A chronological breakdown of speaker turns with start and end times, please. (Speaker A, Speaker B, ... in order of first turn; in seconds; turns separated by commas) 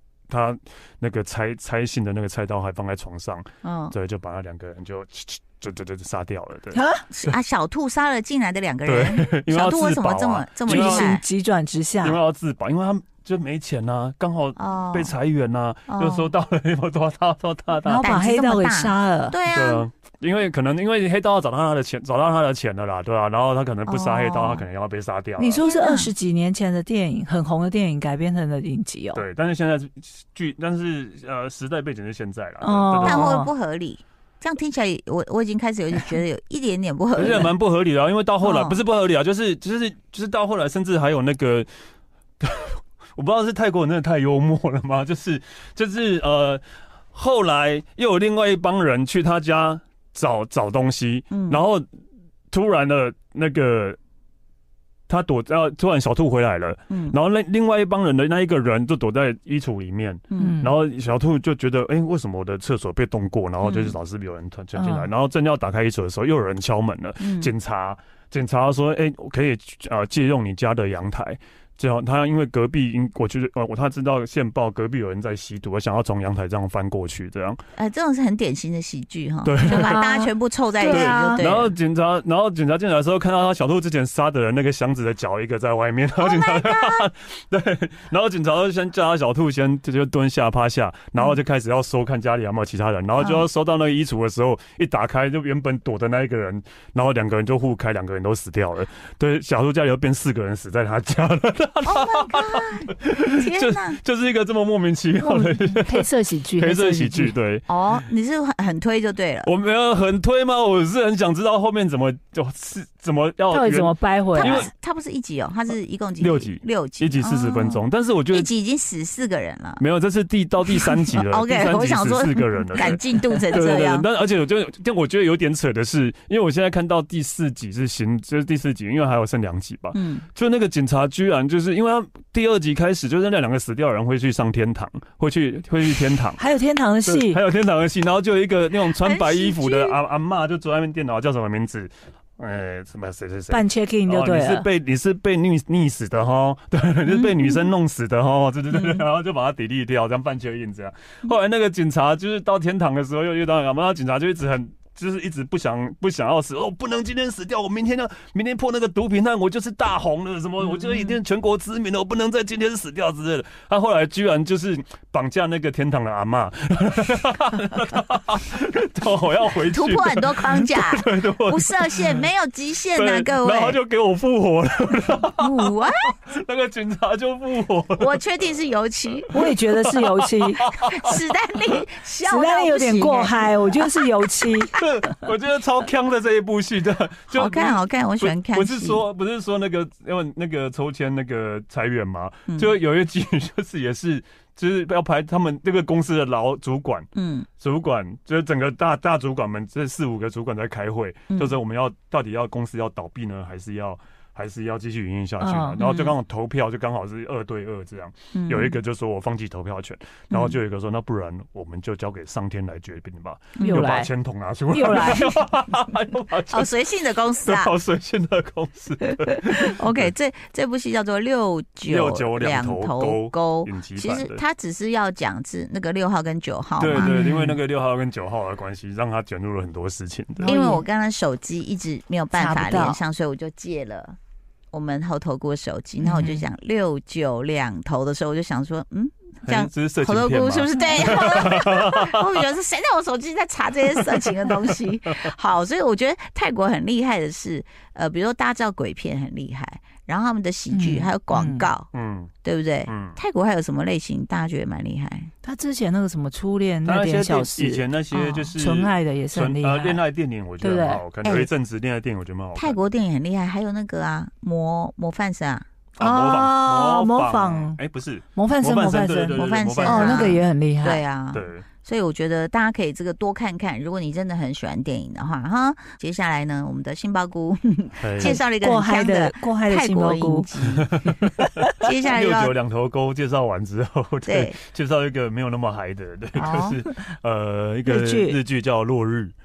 Speaker A: 0.3-7.3, Speaker B: 3.6-4.0, Speaker C: 6.8-7.0, Speaker B: 7.1-11.2, Speaker A: 8.9-11.1, Speaker C: 10.7-12.2, Speaker A: 12.0-18.1, Speaker B: 14.6-15.1, Speaker B: 15.9-16.3, Speaker C: 17.9-19.4, Speaker B: 17.9-19.9, Speaker A: 19.5-25.6, Speaker B: 23.9-24.6, Speaker C: 25.4-29.2, Speaker B: 25.6-26.1, Speaker A: 29.1-33.4, Speaker C: 32.6-33.5, Speaker B: 33.0-37.5, Speaker A: 37.1-41.7, Speaker B: 38.4-38.8, Speaker A: 42.4-51.9, Speaker B: 51.3-51.6, Speaker A: 52.5-54.0, Speaker A: 55.1-77.6, Speaker B: 56.9-57.2, Speaker B: 60.3-60.6, Speaker C: 60.4-60.7, Speaker B: 63.6-64.0, Speaker C: 64.8-65.1, Speaker B: 67.2-67.5, Speaker B: 77.8-81.7, Speaker A: 79.5-80.1, Speaker C: 79.7-81.4, Speaker A: 80.8-107.7, Speaker B: 86.2-87.1, Speaker B: 93.2-93.5, Speaker B: 101.8-104.0, Speaker C: 105.2-107.3, Speaker B: 107.7-109.5, Speaker A: 109.5-114.7, Speaker C: 113.5-114.7, Speaker B: 114.4-119.8, Speaker A: 116.2-118.5, Speaker A: 119.8-136.4, Speaker B: 120.7-124.1, Speaker B: 129.9-130.3, Speaker C: 136.4-137.4, Speaker A: 137.1-172.2, Speaker B: 139.0-140.0, Speaker C: 143.5-144.7, Speaker B: 147.2-147.6, Speaker B: 169.7-173.8, Speaker A: 172.9-178.2, Speaker B: 175.4-176.1, Speaker B: 178.0-179.3, Speaker A: 179.2-181.2, Speaker C: 179.3-180.7, Speaker B: 180.9-184.0, Speaker C: 182.2-184.8, Speaker A: 184.8-197.1, Speaker B: 187.3-189.0, Speaker B: 197.2-197.5, Speaker A: 197.6-216.7, Speaker B: 201.3-201.6, Speaker C: 205.4-205.9, Speaker B: 205.8-206.1, Speaker B: 208.3-208.8, Speaker B: 210.3-210.6, Speaker C: 213.6-214.1, Speaker C: 214.7-215.4, Speaker B: 216.5-217.8, Speaker A: 217.4-220.1, Speaker B: 219.4-227.1, Speaker A: 221.9-224.4, Speaker A: 226.8-230.5, Speaker C: 226.9-227.6, Speaker C: 230.4-230.8, Speaker B: 230.5-234.2, Speaker C: 232.4-233.0, Speaker B: 234.7-251.9, Speaker C: 236.0-236.4, Speaker A: 239.4-242.4, Speaker C: 240.8-241.2, Speaker A: 244.0-245.3, Speaker C: 250.7-251.7, Speaker A: 251.9-252.3, Speaker B: 252.4-255.3, Speaker A: 252.9-253.2, Speaker C: 255.4-260.0, Speaker A: 256.9-262.8, Speaker C: 260.6-261.1, Speaker B: 262.6-265.7, Speaker A: 266.0-270.4, Speaker C: 266.0-267.8, Speaker C: 268.4-271.0, Speaker B: 269.4-281.0, Speaker A: 271.3-271.7, Speaker A: 278.0-278.4, Speaker C: 278.2-280.5, Speaker A: 280.9-289.3, Speaker B: 281.8-282.6, Speaker B: 284.3-284.6, Speaker B: 286.4-286.8, Speaker C: 287.9-288.4